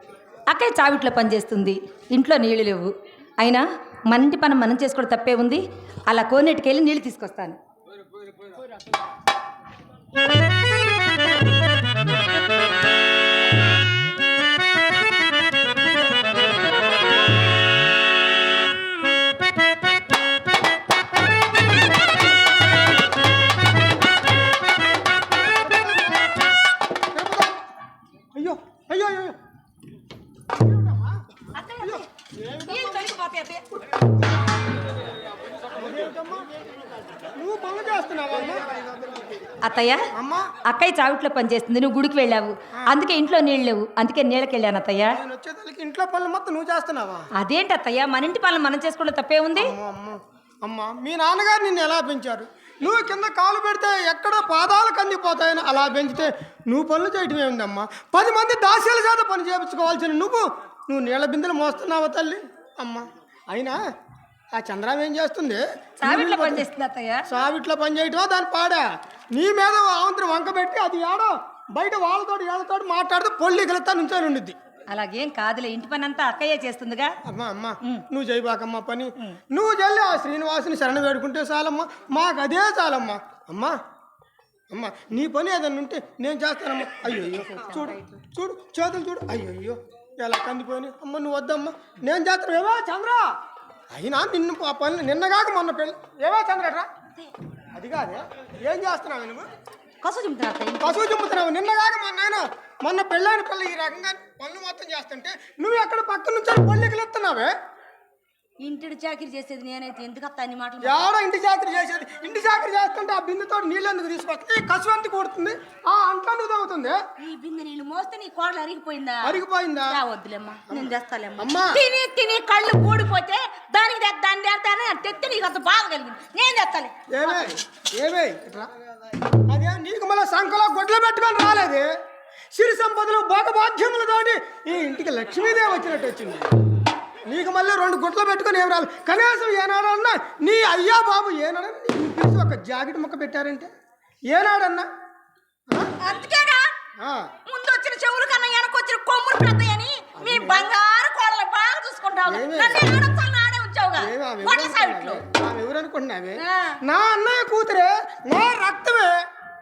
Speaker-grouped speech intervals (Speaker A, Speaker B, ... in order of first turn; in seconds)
Speaker A: 0.5-7.6, 31.6-32.0, 32.7-33.7, 39.6-40.1, 40.7-45.2, 47.4-49.7, 66.0-67.2, 74.9-77.1, 87.6-88.0
Speaker B: 25.5-26.3, 27.1-27.6, 28.3-29.4, 30.5-31.2, 31.8-33.1, 35.7-36.5, 37.4-39.3, 40.1-40.5, 45.1-47.2, 49.5-63.8, 64.5-66.7, 67.3-74.5, 77.2-83.7, 84.7-93.3, 93.9-96.9, 97.7-99.5, 100.8-107.5, 110.8-117.0, 119.2-120.0, 120.7-121.8, 127.1-128.7, 129.5-131.9, 132.5-136.5, 137.3-143.7, 144.3-144.9, 147.0-147.3, 150.2-150.7, 152.3-152.9, 154.0-159.2
Speaker C: 100.0-101.0, 108.6-111.1, 117.2-126.9, 146.0-146.7, 147.4-155.2, 156.4-156.7